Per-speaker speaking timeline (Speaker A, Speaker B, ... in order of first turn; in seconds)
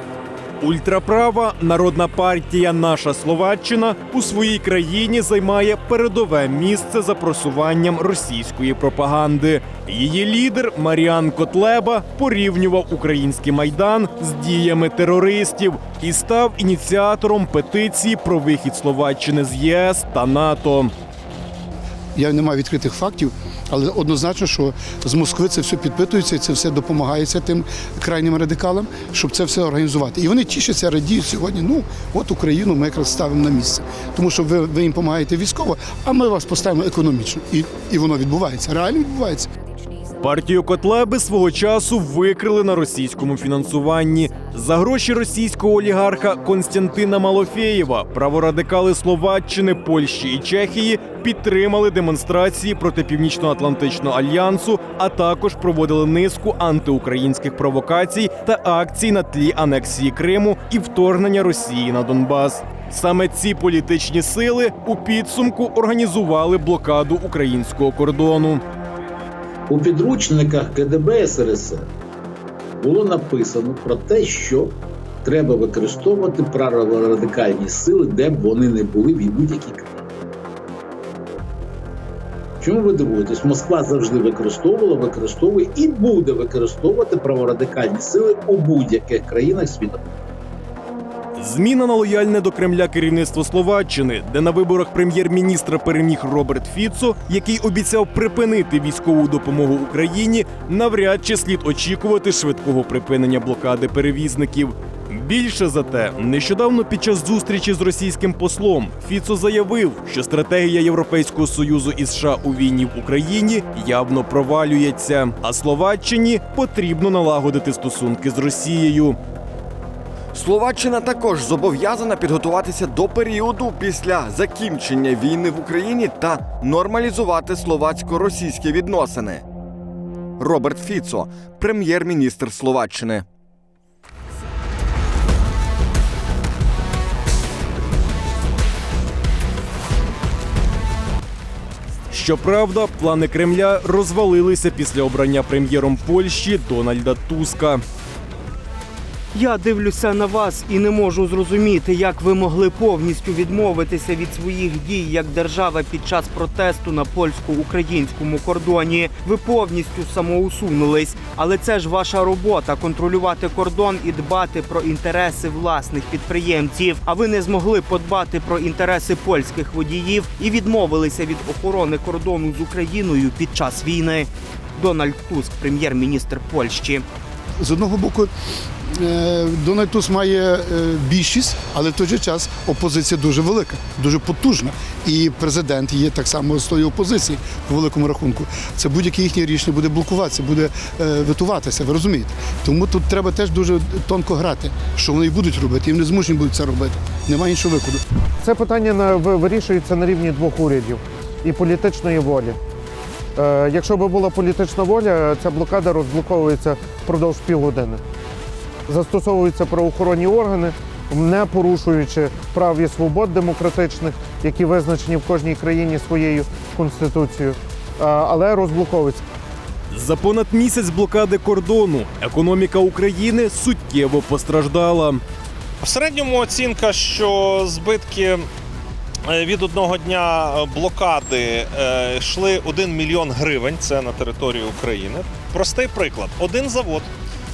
Speaker A: 0.6-20.9, 40.2-68.6, 91.4-119.2, 142.1-147.8, 219.9-225.2
Speaker B: 22.2-39.5, 177.6-178.3, 178.9-198.0
Speaker C: 69.7-71.9, 72.8-80.1, 82.6-90.1
Speaker D: 120.3-129.4, 130.4-133.3
Speaker E: 149.3-177.1
Speaker F: 198.4-202.6, 203.4-208.0, 208.9-219.2
Speaker G: 225.8-228.5, 229.3-237.1